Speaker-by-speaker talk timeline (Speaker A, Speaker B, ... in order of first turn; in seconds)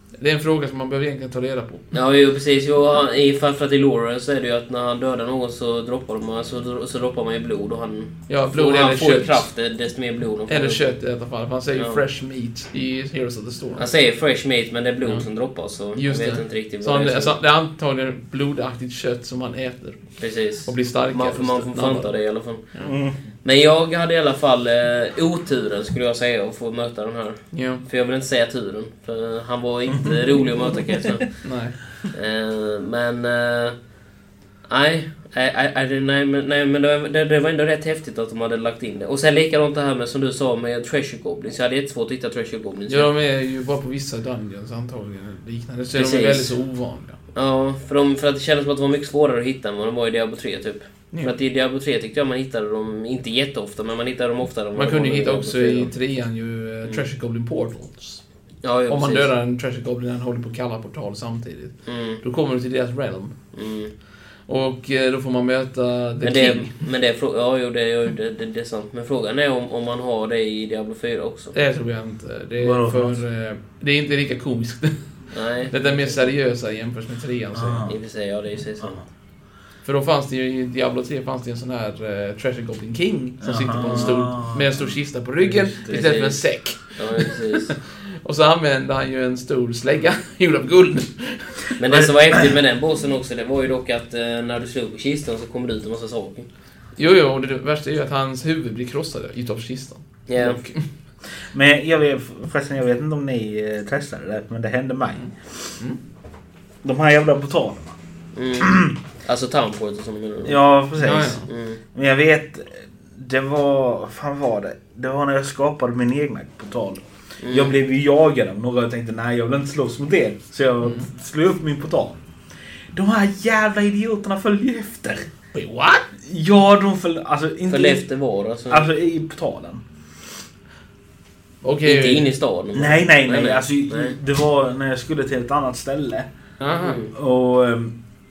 Speaker A: 0.2-1.9, 8.3-9.5, 10.5-13.9, 15.9-22.2, 27.5-27.8, 31.4-31.8, 42.9-47.2, 54.7-58.2, 58.9-63.3, 64.5-66.7, 71.5-77.9, 79.8-91.8, 97.0-100.9, 111.0-111.5, 125.5-126.1, 131.6-132.3, 136.6-136.9
Speaker B: 1.9-11.0, 11.7-12.0, 13.8-17.4, 20.2-22.9, 23.4-31.5, 32.1-33.8, 34.7-43.2, 45.9-46.5, 47.4-55.9, 58.6-59.3, 61.9-62.2, 63.5-63.9, 66.2-71.5, 75.3-76.3, 77.9-79.0, 83.8-84.1, 85.9-87.7, 91.8-96.5, 100.3-100.6, 108.3-110.8, 111.5-111.8, 117.4-117.8, 127.7-128.9, 131.8-134.2, 136.6-137.1
Speaker C: 22.9-23.3, 72.6-73.2, 77.5-78.0, 78.8-79.0, 83.4-86.0, 101.5-105.5, 106.8-108.0, 108.6-108.9, 110.5-122.2, 122.9-125.3, 126.2-128.1, 128.7-129.8, 132.7-136.3, 137.1-137.9